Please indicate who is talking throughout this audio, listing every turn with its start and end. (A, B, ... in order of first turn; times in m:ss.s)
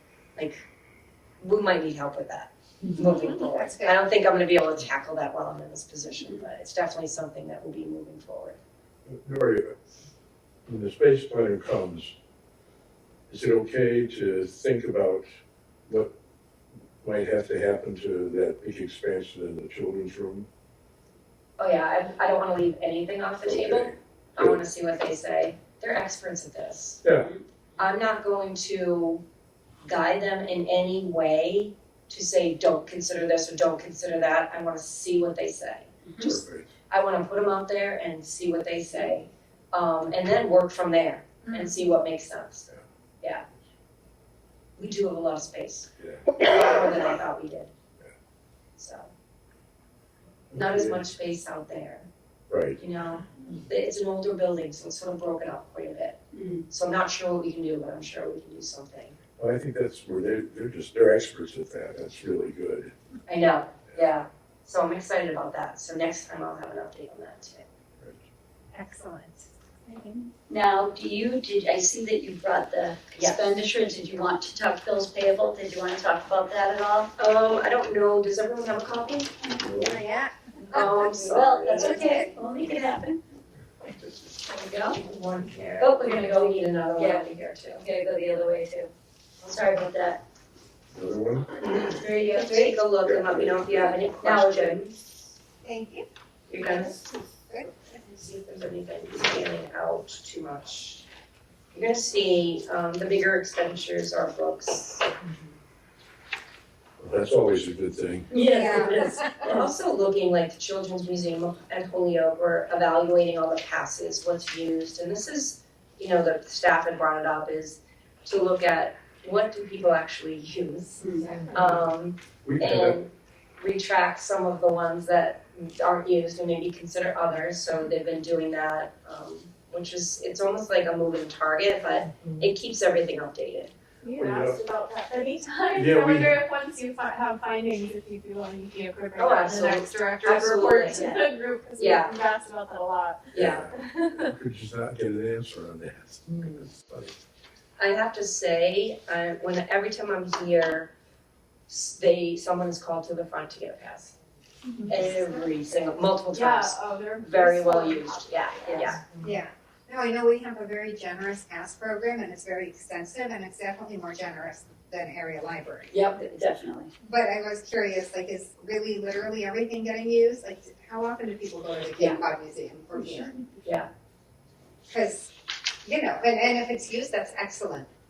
0:00.4-0:00.6 A
0:01.4-0:08.6 A
0:03.0-0:04.0 B
0:09.1-0:09.8 C
0:10.6-0:12.2 C
0:13.3-0:15.3 C
0:15.9-0:16.1 C
0:17.0-0:20.5 C
0:21.6-0:27.0 A
0:23.4-0:24.6 C
0:27.2-0:27.4 D
0:27.8-0:29.2 A
0:29.8-0:36.3 A
0:36.0-0:36.4 D
0:36.2-0:36.7 C
0:36.9-0:42.7 A
0:44.8-0:47.7 A
0:46.0-0:46.3 C
0:48.8-0:49.1 A
0:50.5-0:51.0 C
0:50.5-0:52.1 A
0:52.5-0:52.8 C
0:52.8-0:59.2 A
0:56.3-0:56.6 D
0:59.4-1:02.9 C
1:03.3-1:07.7 A
1:08.7-1:10.3 B
1:10.5-1:17.1 D
1:13.1-1:13.5 A
1:17.2-1:19.3 A
1:19.6-1:20.0 C
1:19.7-1:22.3 B
1:20.7-1:22.1 A
1:21.0-1:23.2 D
1:24.4-1:25.0 D
1:25.0-1:27.8 A
1:25.8-1:30.2 D
1:30.9-1:31.5 C
1:31.6-1:32.8 D
1:32.3-1:34.9 A
1:33.0-1:33.6 C
1:33.9-1:35.0 D
1:35.6-1:36.0 B
1:36.5-1:37.0 A
1:37.9-1:41.1 A
1:41.7-1:45.1 A
1:47.0-1:48.3 C
1:48.3-1:49.6 D
1:48.5-1:49.3 B
1:49.4-2:13.7 A
2:01.0-2:01.3 D
2:02.4-2:03.0 C
2:14.0-2:24.3 E
2:14.1-2:14.6 C
2:15.7-2:16.4 C
2:19.2-2:21.1 A
2:21.8-2:22.2 A
2:23.3-2:27.2 C
2:23.3-2:23.7 A
2:27.8-2:30.9 A
2:31.7-2:34.2 A
2:34.9-2:39.0 A
2:36.3-2:38.9 E
2:39.2-2:45.9 B
2:45.9-2:46.9 D
2:47.0-2:53.4 B
2:53.6-2:53.9 A
2:54.9-2:55.3 B
2:55.8-2:57.9 B